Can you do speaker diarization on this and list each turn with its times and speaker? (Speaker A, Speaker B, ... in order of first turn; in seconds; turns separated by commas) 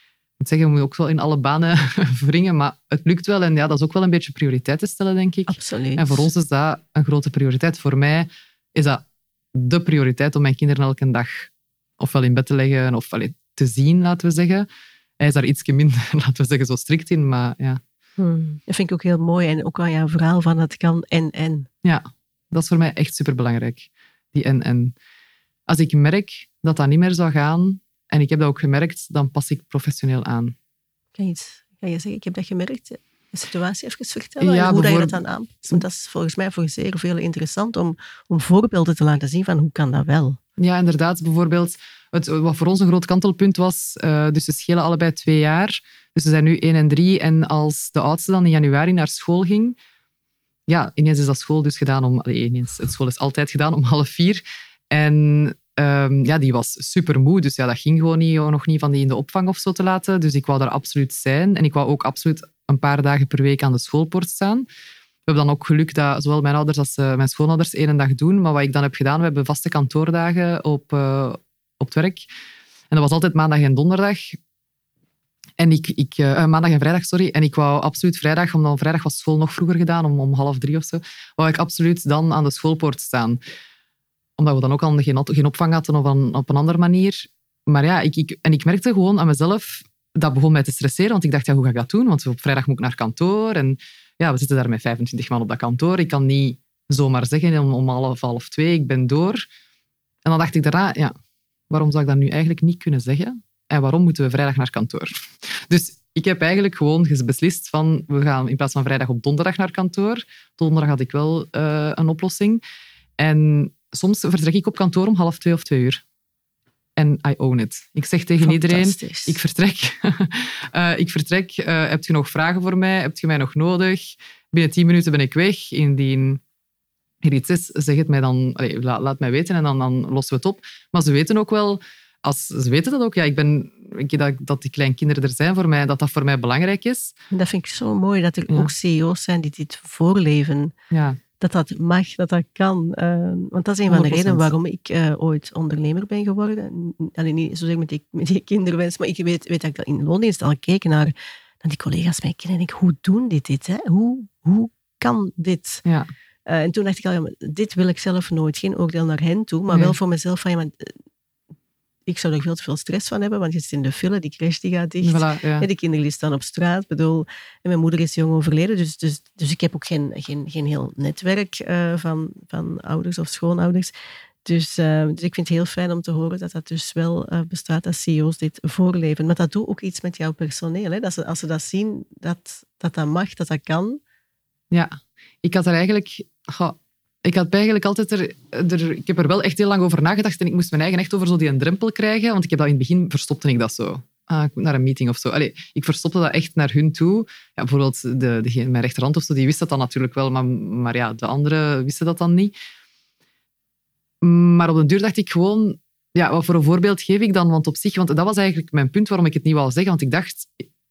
Speaker A: 0.4-9.0, Speaker B: 5.5-6.3, Speaker A: 9.5-14.7, Speaker A: 15.2-17.8, Speaker B: 18.2-21.7, Speaker A: 21.8-24.9, Speaker A: 25.7-30.5, Speaker B: 31.1-40.4, Speaker A: 34.4-35.8, Speaker A: 40.6-49.8, Speaker A: 50.7-64.7, Speaker A: 65.3-72.2, Speaker A: 72.9-74.4, Speaker A: 75.6-83.4, Speaker A: 84.4-99.4, Speaker A: 100.2-101.1, Speaker A: 101.7-112.6, Speaker A: 113.2-116.0, Speaker A: 117.0-126.4, Speaker B: 118.4-119.4, Speaker A: 127.2-137.1, Speaker B: 137.3-140.7, Speaker A: 140.9-141.2, Speaker B: 141.4-155.8, Speaker A: 143.9-144.5, Speaker A: 155.8-156.1, Speaker B: 156.4-160.9, Speaker A: 159.7-159.9, Speaker B: 162.1-173.9, Speaker A: 165.0-165.7, Speaker B: 174.4-184.0, Speaker A: 184.7-202.5, Speaker A: 204.2-210.6